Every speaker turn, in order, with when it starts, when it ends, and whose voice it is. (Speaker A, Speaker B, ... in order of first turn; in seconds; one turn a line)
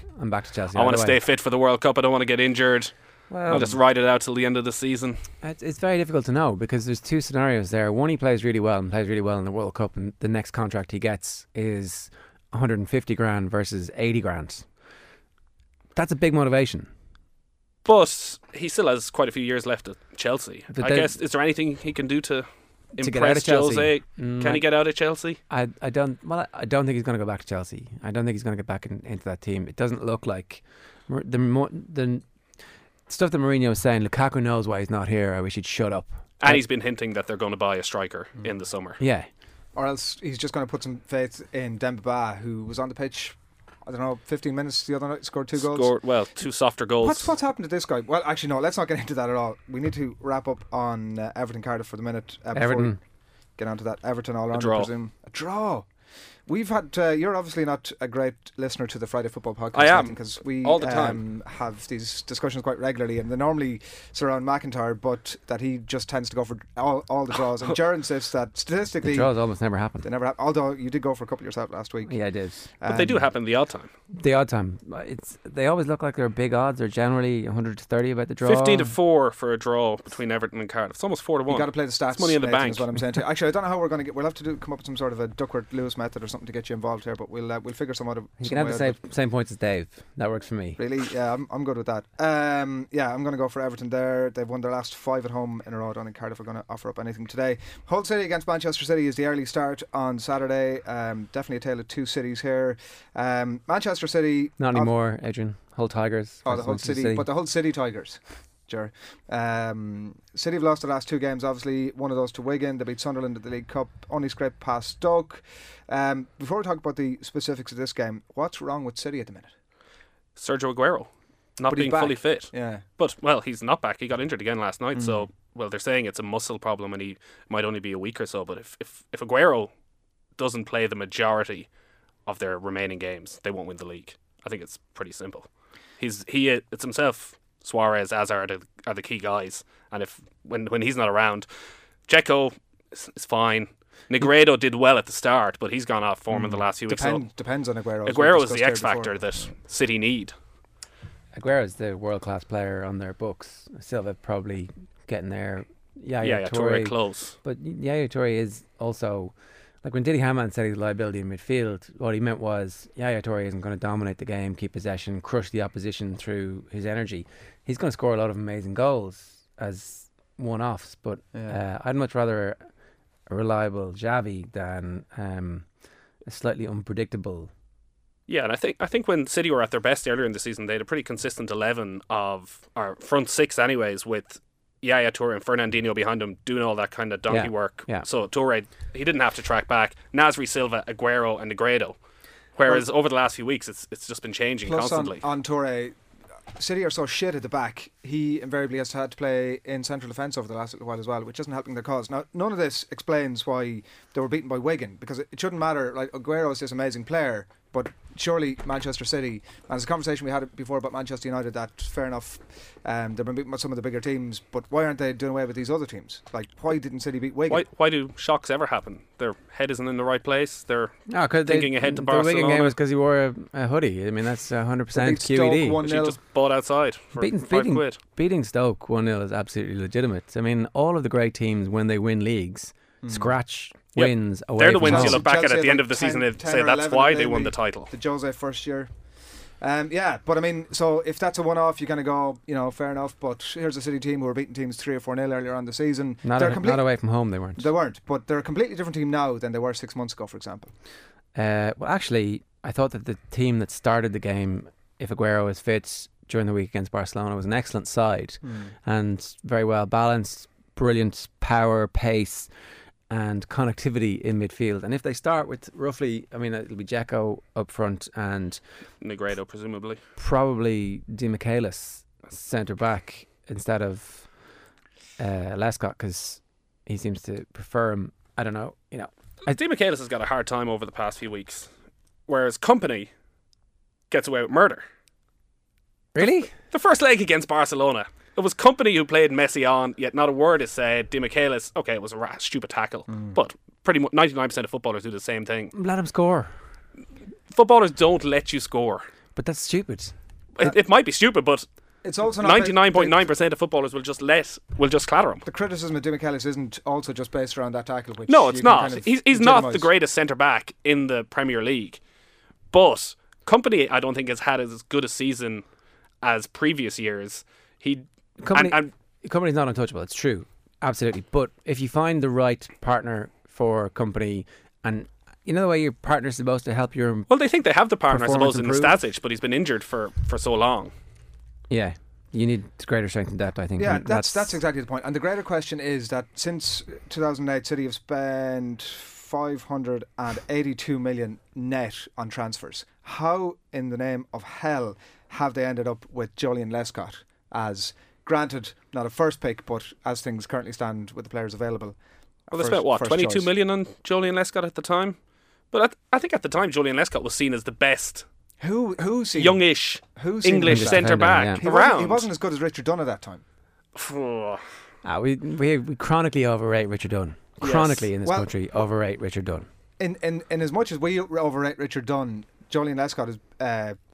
Speaker A: 0.2-1.2
Speaker B: 0.7-2.9
Speaker A: 3.3-3.7
Speaker B: 3.5-5.2
Speaker A: 5.4-14.7
Speaker A: 15.9-16.9
Speaker B: 17.8-25.4
Speaker A: 20.7-21.1
Speaker A: 23.0-24.6
Speaker A: 25.5-32.2
Speaker A: 33.1-36.6
Speaker B: 36.4-39.0
Speaker A: 39.0-39.3
Speaker C: 39.7-45.9
Speaker B: 45.5-47.3
Speaker C: 47.0-53.0
Speaker A: 52.5-53.0
Speaker C: 53.6-55.9
Speaker B: 54.5-54.9
Speaker C: 56.5-69.3
Speaker B: 59.7-61.2
Speaker A: 69.0-70.1
Speaker C: 70.0-72.1
Speaker A: 72.1-72.6
Speaker C: 72.8-73.3
Speaker B: 72.9-73.9
Speaker A: 74.1-78.9
Speaker B: 78.4-82.9
Speaker C: 81.5-89.0
Speaker A: 88.4-90.8
Speaker C: 90.8-104.9
Speaker A: 104.6-107.2
Speaker C: 106.4-119.5
Speaker B: 120.4-129.7
Speaker C: 121.7-122.8
Speaker C: 124.9-125.3
Speaker B: 130.4-131.7
Speaker B: 132.2-135.5
Speaker B: 136.0-141.5
Speaker B: 142.1-147.2
Speaker C: 146.3-149.5
Speaker B: 148.1-150.3
Speaker A: 151.3-172.6
Speaker B: 156.2-157.3
Speaker A: 173.3-175.7
Speaker A: 176.2-177.5
Speaker B: 178.3-192.0
Speaker A: 187.3-188.1
Speaker B: 192.6-195.2
Speaker C: 194.6-195.9
Speaker C: 196.5-217.6
Speaker B: 217.5-222.8
Speaker A: 221.1-225.8
Speaker C: 224.9-226.2
Speaker B: 225.8-228.0
Speaker A: 227.2-235.2
Speaker C: 233.0-233.3
Speaker B: 233.9-237.9
Speaker C: 234.8-238.9
Speaker C: 239.6-246.9
Speaker A: 246.2-247.7
Speaker C: 247.6-250.7
Speaker A: 251.3-262.5
Speaker C: 258.4-258.7
Speaker A: 263.1-268.6
Speaker B: 269.0-270.0
Speaker A: 270.2-274.3
Speaker A: 275.2-279.6
Speaker B: 279.4-281.7
Speaker B: 282.3-283.1
Speaker B: 284.1-284.8
Speaker A: 286.1-286.5
Speaker B: 286.7-295.7
Speaker C: 293.1-293.4
Speaker A: 295.7-296.5
Speaker B: 297.5-299.0
Speaker A: 299.4-300.1
Speaker B: 300.6-301.6
Speaker C: 302.0-303.2
Speaker B: 302.4-305.4
Speaker C: 305.4-309.9
Speaker B: 308.3-312.0
Speaker B: 312.7-315.6
Speaker B: 316.2-318.9
Speaker A: 318.4-327.3
Speaker B: 327.3-330.9
Speaker A: 328.1-328.9
Speaker A: 331.7-334.6
Speaker C: 333.8-352.0
Speaker C: 352.5-353.5
Speaker B: 352.5-355.2
Speaker B: 355.7-358.2
Speaker C: 358.6-359.6
Speaker B: 359.4-362.3
Speaker C: 360.1-363.4
Speaker A: 360.6-361.6
Speaker B: 363.9-364.6
Speaker A: 365.0-369.7
Speaker C: 367.6-368.5
Speaker C: 370.0-374.0